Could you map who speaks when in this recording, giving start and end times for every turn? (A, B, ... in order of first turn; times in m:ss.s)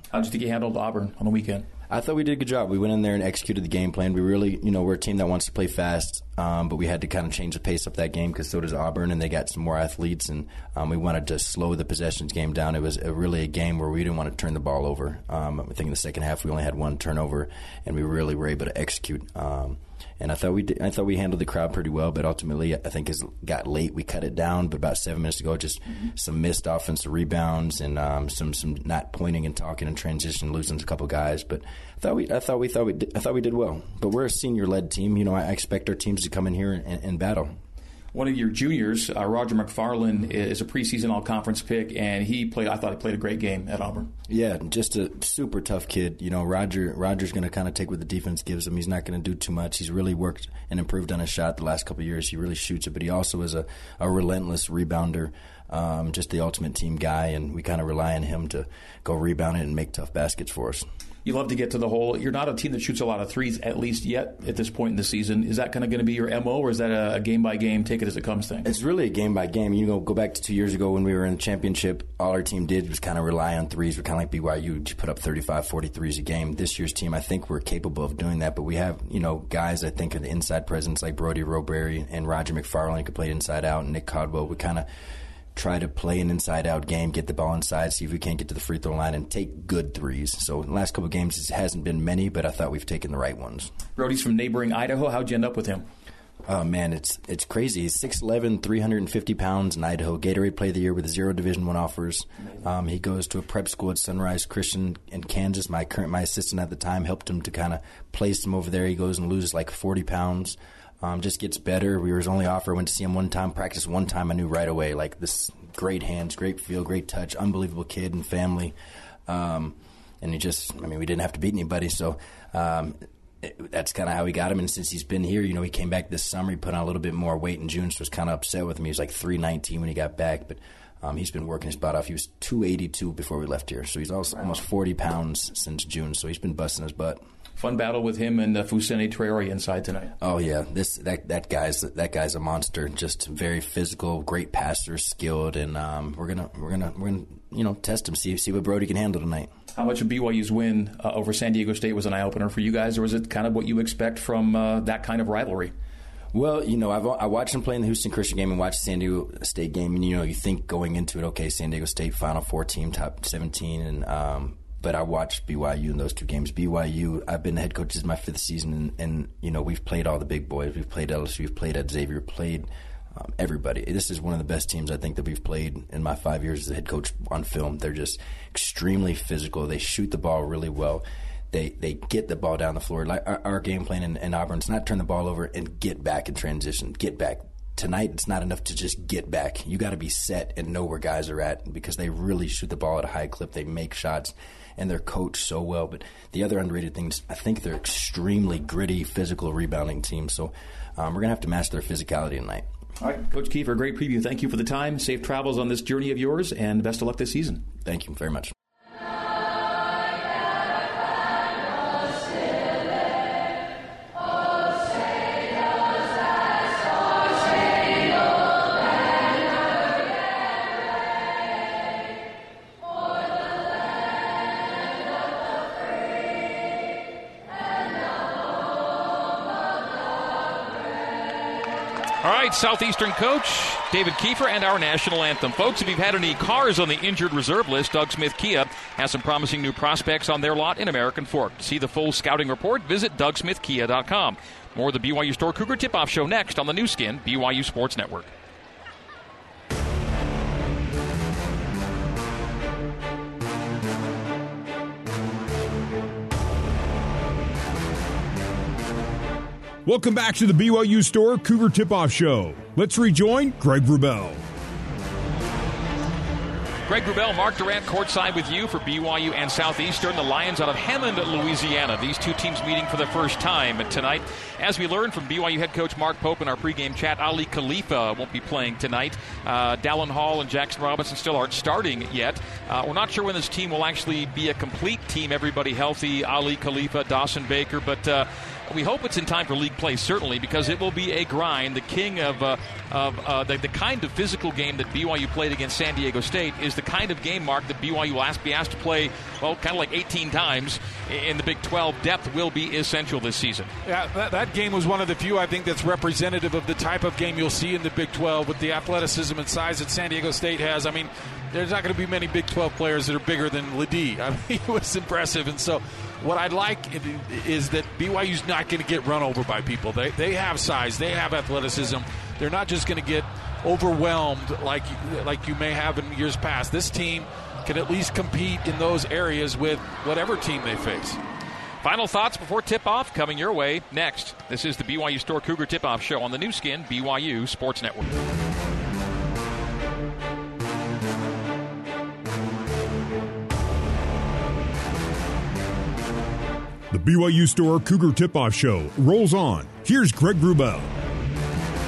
0:00.1-0:01.7 A
0:01.9-0:37.6 B
0:38.1-0:44.1 A
0:44.3-1:00.9 B
1:01.2-1:08.7 A
1:08.6-1:24.9 B
1:25.5-1:33.7 B
1:34.0-1:35.9 A
1:36.4-1:58.8 B
1:59.3-2:17.2 B
2:17.6-2:20.1 A
2:20.2-2:29.5 B
2:29.7-2:35.7 A
2:36.3-3:22.7 B
3:23.0-3:27.6 A
3:27.8-3:28.5 B
3:52.2-4:08.3 C
4:19.8-4:24.4 D
4:26.9-5:03.7 C
5:03.8-5:31.2 E
5:31.8-5:38.0 C
5:46.9-5:50.9 D